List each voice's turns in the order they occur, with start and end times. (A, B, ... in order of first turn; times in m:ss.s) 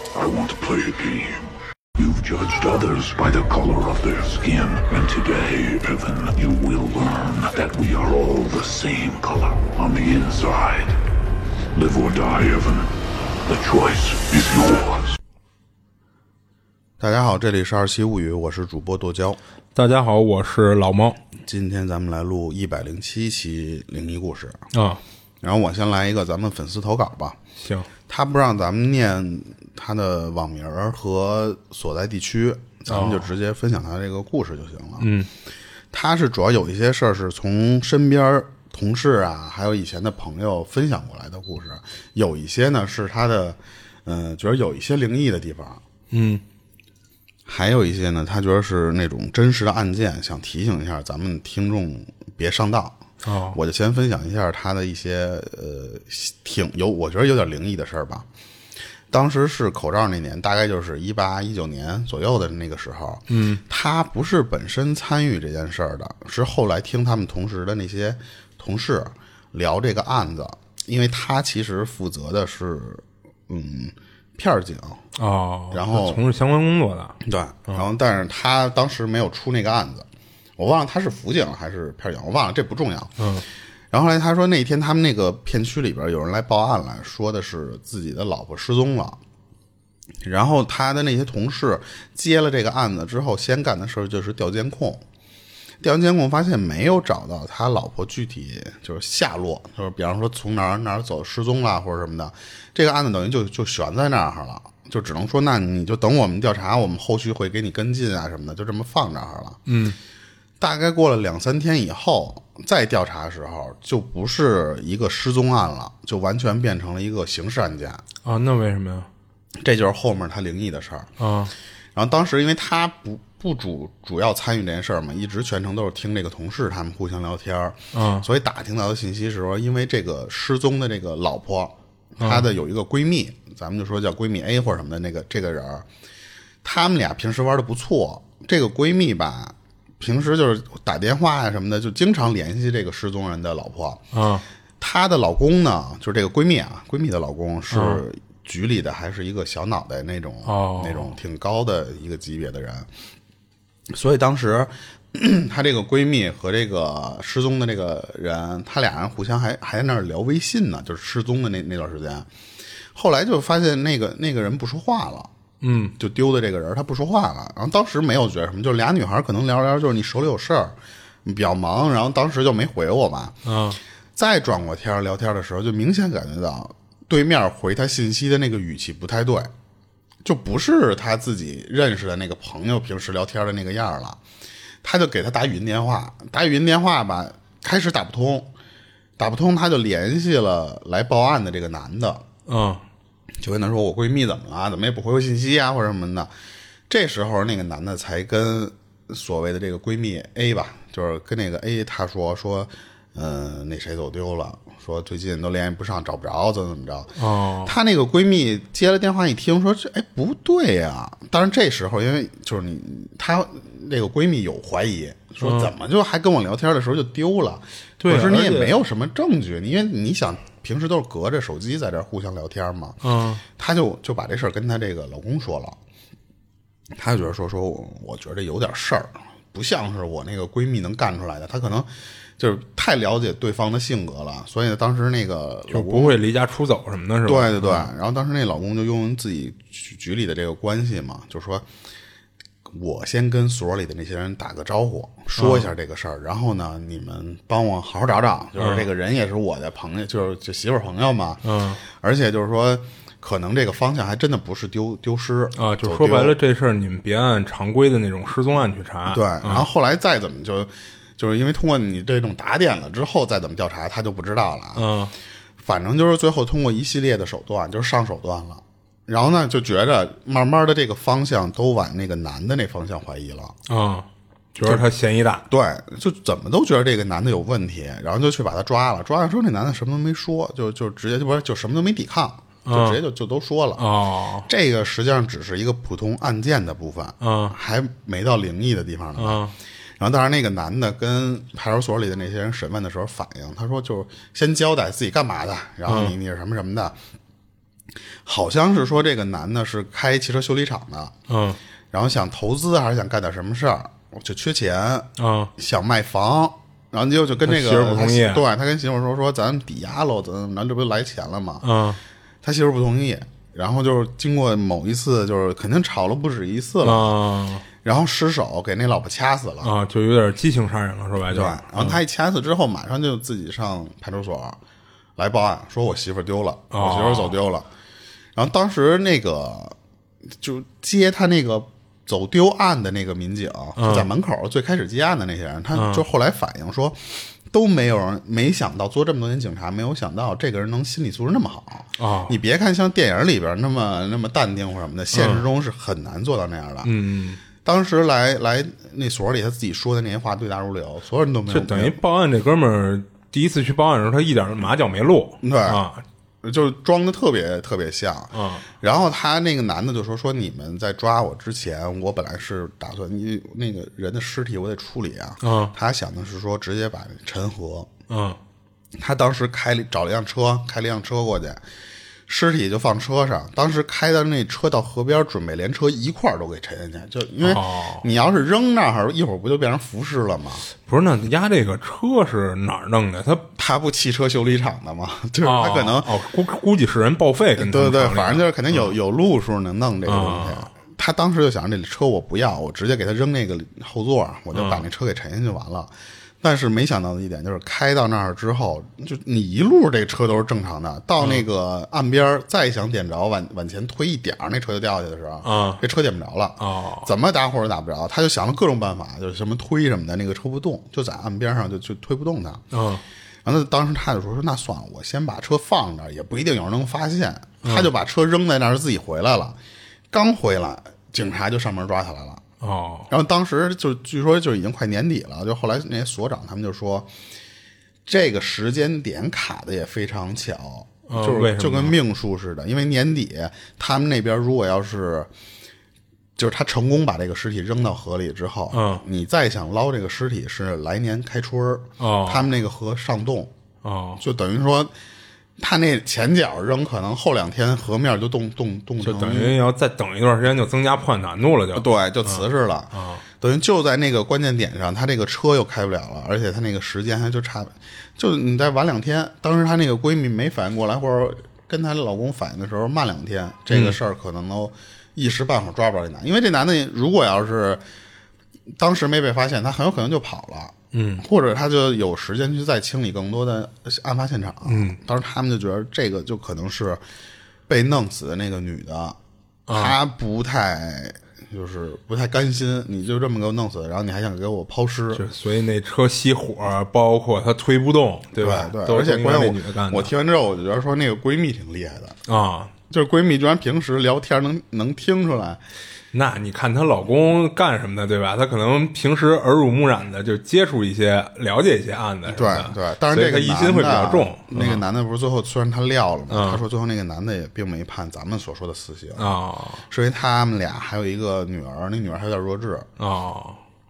0:00.2-0:11.0 A
0:11.7-0:15.1 A
0:17.0-0:19.4 B
0:19.8-0:21.2 C
0:21.4-0:24.6 B
0:24.7-0:25.0 C
0:25.4-0:27.4 B
0:27.6-0:27.9 C
0:28.1-0:35.1 B
0:32.9-0:33.3 C
0:35.0-0:35.3 C
0:35.9-0:45.8 B
0:46.1-0:46.4 C
0:47.5-0:53.0 B
0:53.2-0:53.6 C
0:53.5-0:58.3 B
0:59.1-1:15.0 B
1:03.3-1:03.6 C
1:15.2-1:17.2 C
1:15.7-1:16.2 B
1:17.2-1:20.1 B
1:20.6-1:23.2 B
1:23.2-1:23.4 C
1:23.9-1:29.2 B
1:30.2-1:35.0 B
1:35.8-1:49.6 B
1:49.7-1:50.0 C
1:50.6-1:58.0 B
1:58.2-1:59.1 C
1:59.6-2:01.1 B
2:01.2-2:01.5 C
2:02.0-2:15.9 B
2:07.9-2:08.2 C
2:12.2-2:12.5 C
2:16.6-2:24.0 B
2:24.1-2:24.4 C
2:24.8-2:32.9 B
2:27.7-2:28.0 C
2:30.5-2:31.1 C
2:33.9-2:42.3 B
2:42.9-2:45.3 B
2:45.6-2:45.9 C
2:46.0-2:53.4 B
2:53.4-2:53.8 C
2:54.2-2:59.5 B
3:00.2-3:04.2 B
3:04.8-3:08.5 B
3:09.2-3:12.2 B
3:12.5-3:12.8 C
3:13.4-3:16.3 B
3:16.9-3:27.1 B
3:27.2-3:27.7 C
3:27.6-3:43.0 B
3:35.4-3:35.7 C
3:38.0-3:38.8 C
3:43.0-3:43.4 C
3:43.6-3:45.8 B
3:47.0-3:56.2 B
3:55.7-3:57.9 C
3:57.3-4:01.6 B
4:02.7-4:16.4 B
4:05.4-4:05.7 C
4:08.6-4:08.9 C
4:11.4-4:11.8 C
4:15.6-4:19.7 C
4:19.1-4:24.9 B
4:24.8-4:25.1 C
4:25.6-4:33.6 B
4:33.7-4:35.4 C
4:35.5-4:43.8 B
4:42.7-4:43.0 C
4:43.8-4:44.5 C
4:44.5-4:49.4 B
4:47.2-4:47.6 C
4:49.2-4:49.5 C
4:50.0-4:57.0 B
4:55.9-4:56.2 C
4:58.2-5:01.2 B
5:01.3-5:01.6 C
5:01.9-5:11.7 B
5:05.2-5:05.5 C
5:07.4-5:08.4 C
5:11.6-5:12.0 C
5:12.4-5:17.2 B
5:16.8-5:17.6 C
5:17.8-5:19.7 B
5:19.6-5:22.0 C
5:21.3-5:24.6 B
5:25.2-5:27.7 B
5:26.7-5:27.4 C
5:28.4-5:29.8 B
5:30.4-5:46.9 B
5:33.8-5:34.1 C
5:35.8-5:36.0 C
5:42.0-5:42.3 C
5:45.1-5:45.4 C
5:46.8-5:47.4 C
5:47.6-5:52.0 B
5:51.5-5:56.0 C
5:55.4-5:55.8 B
5:56.4-6:07.9 B
5:58.3-5:58.6 C
6:05.4-6:05.7 C
6:08.1-6:08.4 C
6:09.0-6:11.6 B
6:12.3-6:20.7 B
6:17.4-6:18.0 C
6:20.8-6:23.5 C
6:23.6-6:26.2 B
6:25.4-6:28.9 C
6:27.6-6:35.9 B
6:30.1-6:30.7 C
6:34.6-6:34.8 C
6:36.4-6:52.6 B
6:41.2-6:41.4 C
6:45.4-6:45.8 C
6:46.6-6:47.1 C
6:52.7-6:53.0 C
6:53.4-6:59.6 B
6:57.6-6:57.9 C
7:00.1-7:02.4 B
7:02.6-7:03.1 C
7:03.1-7:07.1 B
7:08.1-7:15.3 B
7:11.1-7:12.0 C
7:16.4-7:23.5 B
7:18.7-7:19.0 C
7:22.0-7:22.5 C
7:23.8-7:24.2 C
7:24.2-7:24.9 B
7:25.6-7:29.6 B
7:29.0-7:32.4 C
7:31.7-7:47.8 B
7:32.9-7:33.2 C
7:43.7-7:44.0 C
7:48.8-7:57.0 B
7:50.9-7:51.2 C
7:54.7-7:55.0 C
7:57.7-7:59.2 B
7:59.7-8:00.0 C
7:59.7-8:05.2 B
8:05.1-8:10.1 C
8:08.4-8:12.2 B
8:12.3-8:12.7 C
8:12.9-8:15.6 B
8:16.1-8:24.8 C
8:22.3-8:29.4 B
8:26.3-8:26.6 C
8:29.2-8:29.8 C
8:29.9-8:32.9 B
8:33.0-8:33.6 C